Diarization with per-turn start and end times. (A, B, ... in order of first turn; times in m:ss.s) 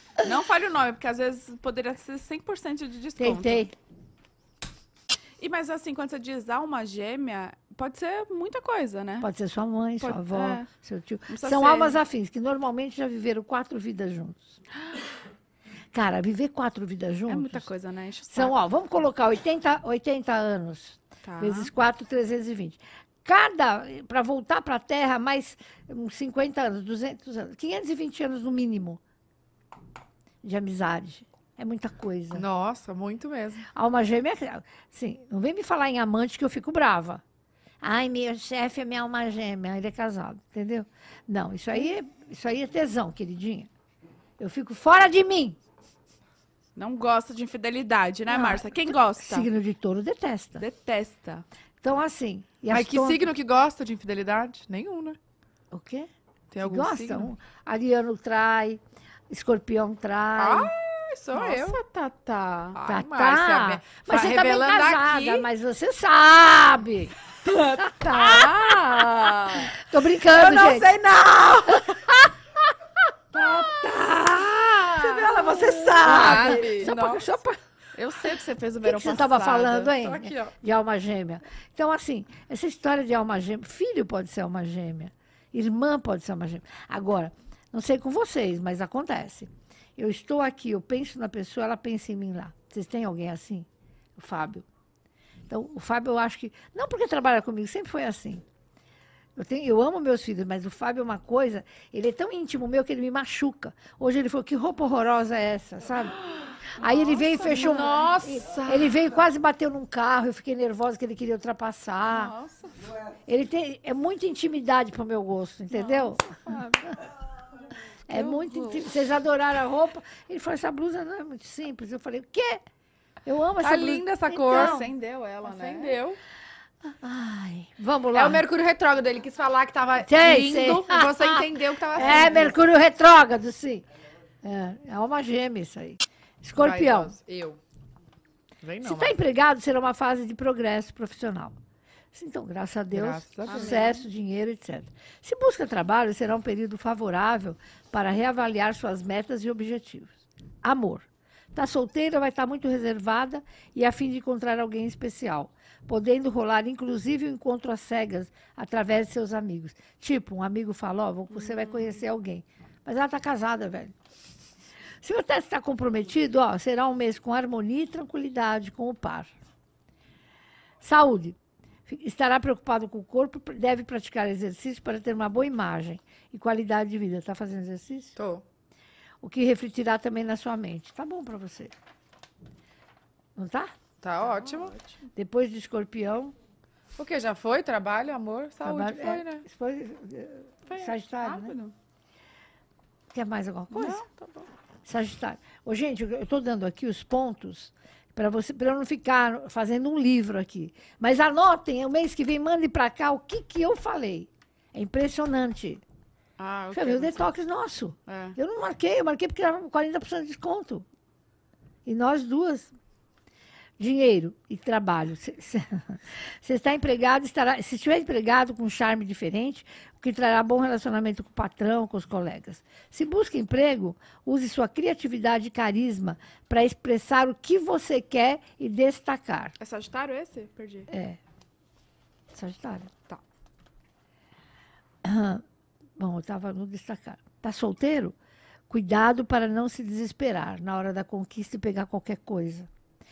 0:00.2-0:03.6 A
0:03.2-0:03.7 B
0:05.4-0:09.3 A
0:09.2-0:14.6 B
0:10.0-0:10.7 A
0:11.3-0:12.0 A
0:15.9-0:17.7 B
0:17.3-0:18.5 A
0:18.3-0:29.0 B
0:21.2-0:21.7 A
0:30.4-0:32.4 B
0:32.3-0:33.6 C
0:33.7-0:37.2 B
0:37.8-0:43.7 B
0:44.4-0:45.6 B
0:46.8-0:49.5 A
0:48.3-0:50.6 B
0:50.6-0:51.4 A
0:51.8-0:53.3 B
0:52.7-0:55.2 C
0:55.7-1:00.7 B
0:56.5-0:57.3 C
1:00.4-1:01.8 C
1:01.3-1:02.8 A
1:02.7-1:05.5 C
1:02.9-1:07.1 B
1:07.5-1:09.7 A
1:07.8-1:09.7 C
1:09.7-1:10.9 B
1:10.2-1:12.1 C
1:11.8-1:12.3 B
1:13.3-1:17.3 C
1:14.9-1:17.5 B
1:15.2-1:19.9 A
1:18.8-1:34.6 B
1:19.9-1:20.5 C
1:35.5-1:38.4 B
1:39.4-1:46.2 B
1:46.2-1:48.2 A
1:46.8-1:52.3 B
1:46.9-1:49.0 C
1:52.1-1:52.9 A
1:53.2-1:56.3 B
1:55.7-1:57.0 A
1:58.1-2:02.6 B
1:58.1-1:58.9 A
2:03.2-2:04.8 B
2:03.6-2:04.8 C
2:04.5-2:06.0 A
2:05.4-2:06.2 C
2:06.8-2:08.4 B
2:08.1-2:12.6 C
2:10.1-2:13.8 B
2:12.0-2:12.5 A
2:14.4-2:17.1 B
2:16.6-2:17.6 C
2:18.6-2:19.1 C
2:18.8-2:21.6 B
2:22.1-2:43.9 B
2:22.9-2:23.8 C
2:23.4-2:24.0 A
2:41.4-2:42.0 A
2:45.0-2:49.3 B
2:50.8-2:58.2 B
2:58.2-2:58.4 C
2:59.2-3:01.7 B
3:03.4-3:03.7 B
3:04.0-3:04.7 C
3:04.2-3:05.0 A
3:05.2-3:06.3 B
3:07.0-3:09.4 C
3:08.6-3:11.5 B
3:10.7-3:11.7 A
3:13.1-3:14.0 B
3:13.7-3:14.5 A
3:14.8-3:25.8 B
3:26.4-3:27.2 C
3:26.7-3:30.8 B
3:28.1-3:28.4 C
3:31.8-3:32.7 B
3:33.8-3:49.5 B
3:49.6-3:50.9 A
3:50.9-3:51.2 B
3:52.3-3:52.9 B
3:55.0-3:55.4 B
3:56.0-3:58.1 B
3:58.7-4:02.7 B